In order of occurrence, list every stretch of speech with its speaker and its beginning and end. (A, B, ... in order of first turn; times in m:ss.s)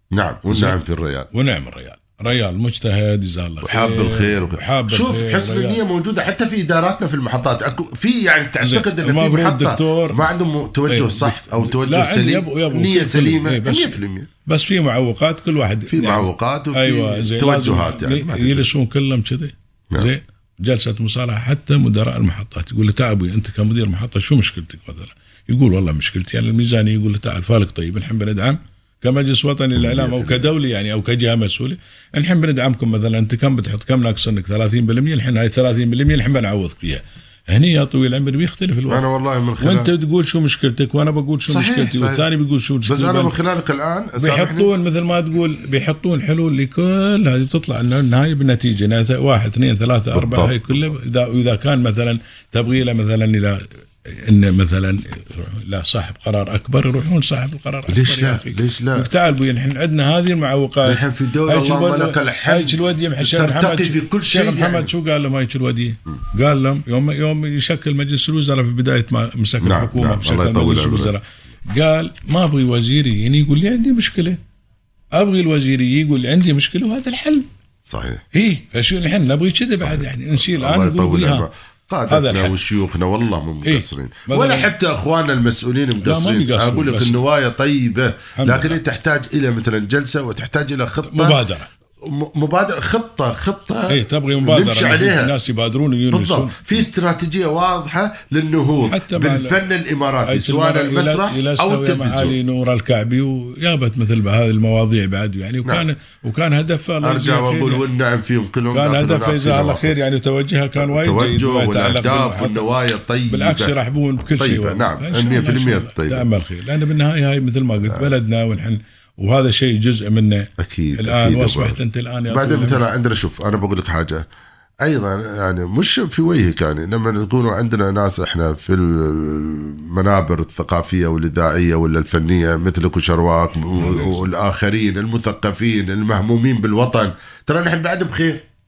0:00.1-0:01.3 A
0:00.5-0:00.8 B
0:01.3-0:05.8 B
0:03.6-0:14.3 A
0:08.6-0:10.3 B
0:10.9-0:39.0 B
0:15.9-0:18.7 A
0:29.8-0:30.5 A
0:38.9-0:39.9 A
0:39.6-0:43.3 B
0:41.4-0:42.3 A
0:42.8-0:44.7 A
0:44.2-1:14.4 B
0:50.1-0:50.9 A
0:57.9-0:59.1 A
1:00.8-1:04.9 A
1:09.6-1:11.1 A
1:15.1-1:17.4 B
1:17.9-1:18.2 A
1:18.3-1:21.5 B
1:19.8-1:31.4 A
1:22.1-1:22.6 B
1:23.6-1:24.7 B
1:26.0-1:27.2 B
1:28.4-1:28.8 B
1:31.0-1:31.7 B
1:32.0-1:35.3 A
1:33.9-1:36.8 B
1:36.1-1:42.4 A
1:38.8-1:39.6 B
1:40.2-1:47.8 B
1:47.0-1:50.0 A
1:48.7-1:52.7 B
1:50.8-1:53.7 A
1:53.3-2:02.9 B
1:54.4-1:56.3 A
2:00.6-2:04.2 A
2:04.8-2:18.4 A
2:13.8-2:14.3 B